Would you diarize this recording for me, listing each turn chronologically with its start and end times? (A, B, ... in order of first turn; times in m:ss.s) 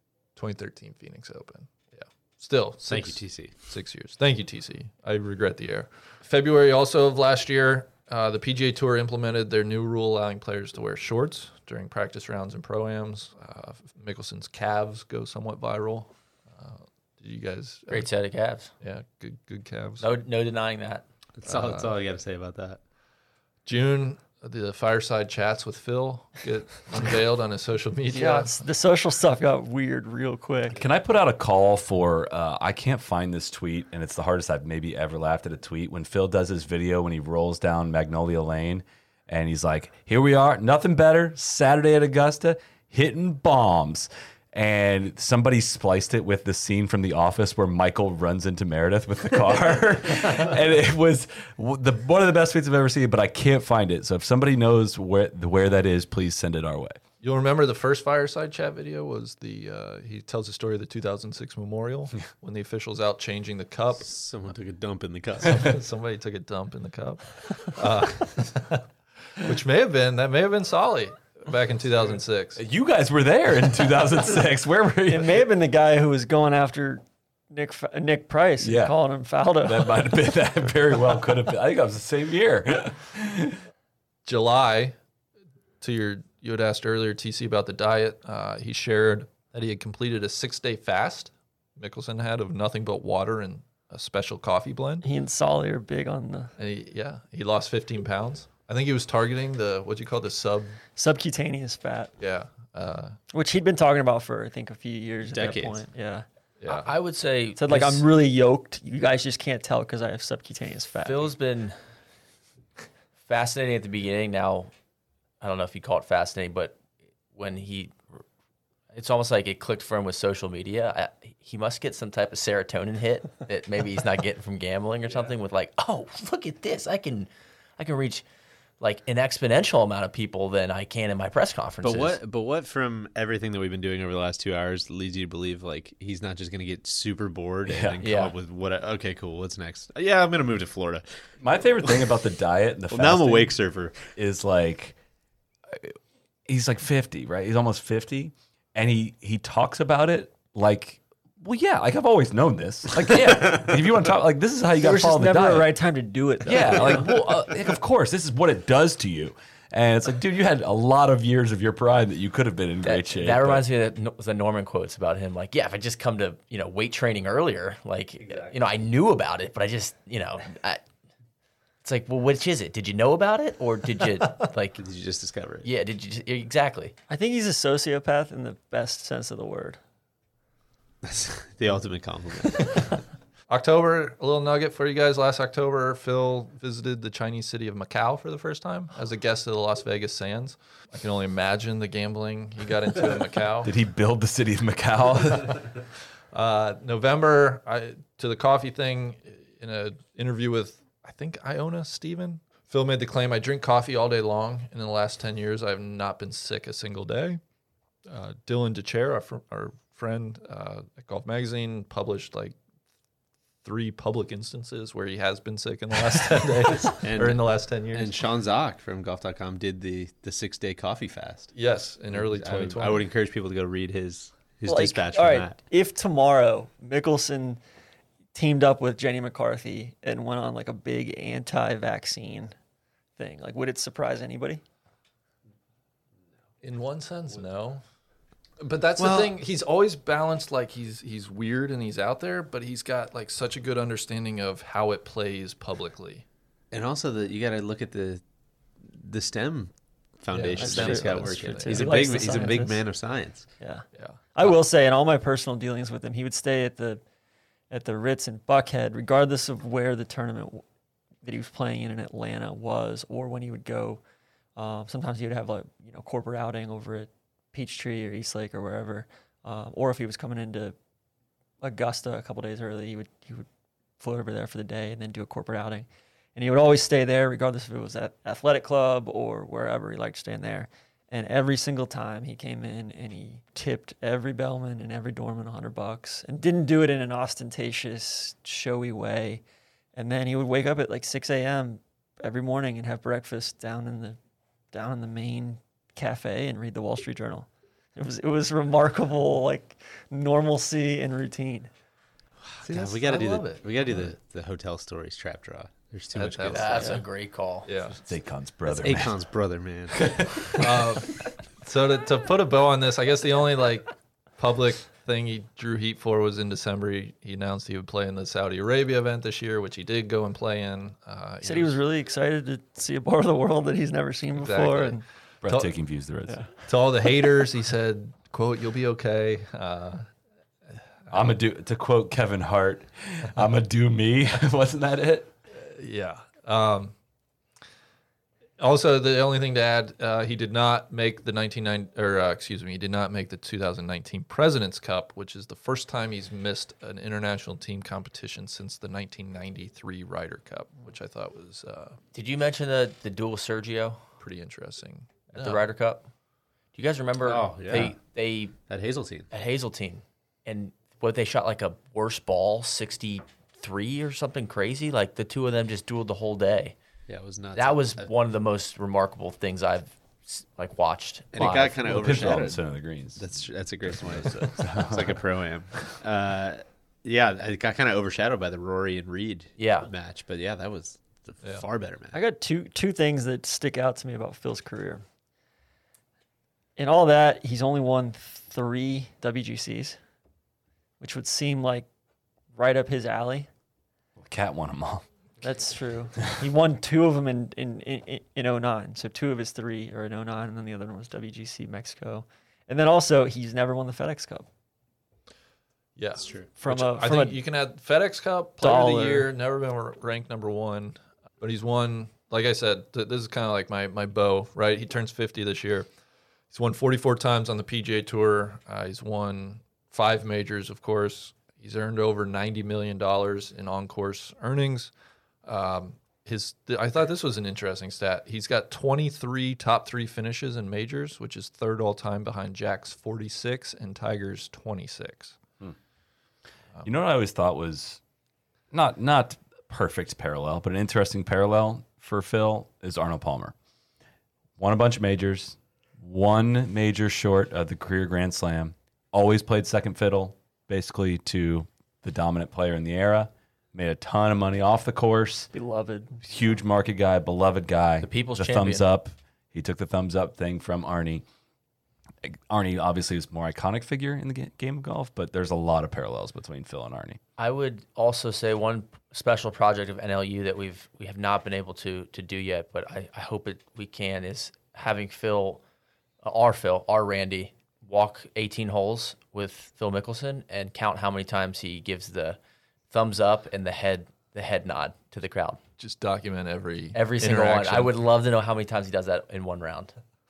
0:00.4-0:18.1 A
0:02.8-0:03.6 B
0:17.9-0:18.7 C
0:18.8-0:20.1 A
0:20.0-0:21.0 C
0:21.4-0:22.8 B
0:21.5-0:21.9 A
0:23.7-0:28.6 A
0:28.1-0:30.8 D
0:30.7-0:57.0 E
0:57.2-1:04.1 A
1:04.0-1:05.7 B
1:05.5-1:08.8 A
1:09.4-1:12.6 A
1:12.6-1:15.4 E
1:15.1-1:20.1 D
1:18.6-1:19.0 E
1:19.6-1:23.6 E
1:24.3-1:25.0 A
1:25.8-1:35.0 A
1:35.0-1:36.5 D
1:36.6-1:40.8 A
1:41.0-1:42.1 D
1:42.2-1:43.2 A
1:43.3-1:46.2 D
1:45.3-1:45.8 B
1:46.6-1:46.9 A
1:46.7-1:48.0 C
1:47.6-1:51.3 D
1:51.0-1:51.8 C
1:53.3-1:54.7 C
1:55.4-1:56.8 C
1:57.4-1:58.0 C
1:58.9-2:08.2 C
2:08.8-2:12.2 C
2:11.8-2:21.1 B
2:17.7-2:18.0 E
2:18.0-2:18.4 C
2:21.4-2:23.6 E
2:22.9-2:24.1 B
2:24.1-2:25.0 E
2:25.7-2:26.0 E
2:26.5-2:35.7 E
2:34.8-2:37.1 D
2:36.4-2:43.6 E
2:42.8-2:50.8 C
2:51.8-2:54.8 C
2:54.8-2:55.7 B
2:55.6-2:57.0 C
2:57.1-2:59.8 D
3:01.0-3:02.9 B
3:03.5-3:13.7 A
3:13.6-3:15.6 E
3:16.3-3:27.4 A
3:28.1-3:32.6 A
3:33.6-3:38.2 A
3:37.0-3:41.5 B
3:41.5-3:43.1 A
3:42.1-3:45.6 B
3:44.6-3:47.6 D
3:48.3-3:52.6 D
3:53.2-3:54.6 D
3:56.6-3:57.8 A
3:58.6-4:06.2 A
3:59.0-3:59.3 B
4:06.7-4:08.2 B
4:08.8-4:13.5 B
4:10.3-4:12.0 A
4:10.5-4:12.8 D
4:13.6-4:17.0 D
4:14.0-4:14.5 A
4:17.7-4:20.6 D
4:21.2-4:24.0 D
4:24.6-4:30.8 D
4:31.6-4:33.5 D
4:34.0-4:49.4 D
4:50.0-4:54.2 D
4:54.7-5:01.7 D
5:02.6-5:07.0 B
5:02.7-5:03.3 C
5:03.3-5:03.6 A
5:06.1-5:07.0 A
5:06.5-5:07.7 C
5:07.6-5:08.0 A
5:08.1-5:09.2 E
5:08.7-5:10.6 B
5:10.0-5:10.8 E
5:10.6-5:21.8 A
5:21.4-5:25.0 D
5:24.4-5:25.7 A
5:25.4-5:26.5 E
5:26.7-5:30.1 A
5:31.1-5:35.3 E
5:35.6-5:36.9 A
5:38.6-5:52.0 A
5:52.1-5:54.0 C
5:54.2-5:55.7 A
5:55.3-5:56.1 C
5:56.8-5:58.6 C
5:57.2-5:58.0 B
5:58.7-5:59.3 B
5:59.3-6:06.8 C
6:07.1-6:08.1 B
6:07.6-6:12.5 C
6:11.3-6:12.6 B
6:11.8-6:13.4 E
6:13.2-6:22.2 B
6:14.2-6:15.2 E
6:19.6-6:19.9 C
6:22.1-6:25.0 D
6:26.8-6:30.0 D
6:31.0-6:31.9 D
6:32.6-6:33.5 D
6:34.2-6:35.0 E
6:35.4-6:44.5 D
6:46.0-6:55.9 A
6:46.2-6:46.5 B
6:46.6-6:47.4 D
6:48.6-6:49.3 D
6:56.5-7:04.9 A
7:05.4-7:15.4 A
7:16.8-7:18.0 E
7:18.7-7:23.6 E
7:24.6-7:35.5 E
7:35.5-7:36.2 D
7:36.2-7:41.2 E
7:38.0-7:38.8 C
7:42.2-7:47.2 E
7:47.4-7:55.6 C
7:56.2-8:02.4 C
8:02.9-8:05.6 C
8:05.8-8:08.0 A
8:07.0-8:09.9 C